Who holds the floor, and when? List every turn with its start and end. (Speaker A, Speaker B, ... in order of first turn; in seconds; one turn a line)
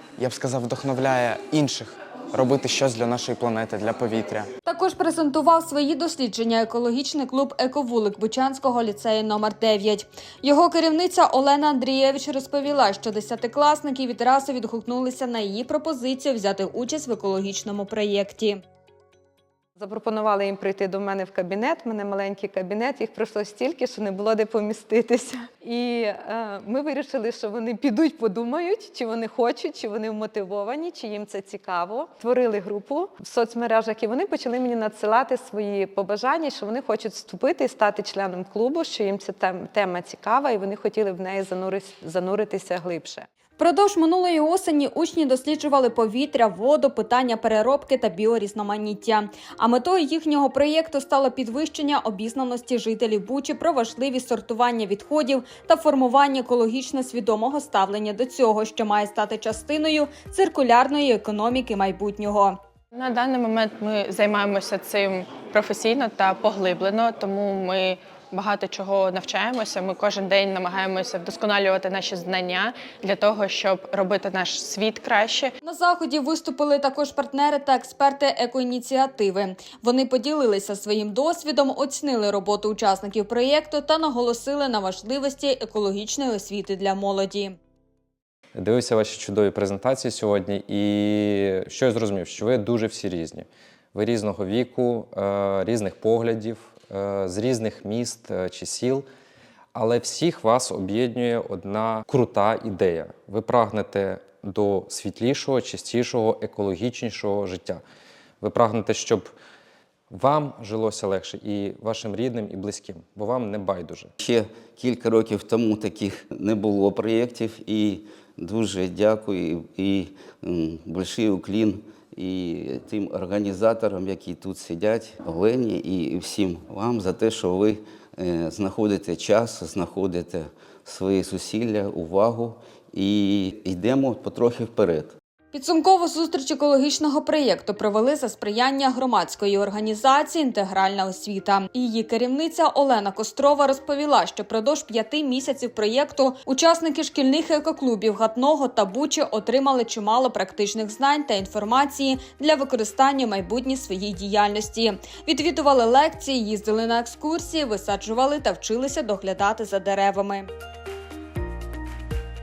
Speaker A: 0.2-4.5
Speaker B: 4.6-18.6
Speaker C: 19.8-43.3
Speaker B: 43.6-62.6
Speaker D: 62.9-75.5
Speaker B: 75.6-87.5
Speaker E: 88.5-99.0
Speaker E: 99.7-107.8
Speaker E: 108.4-109.3
Speaker E: 110.1-114.1
Speaker F: 114.2-135.2
Speaker B: 135.5-160.5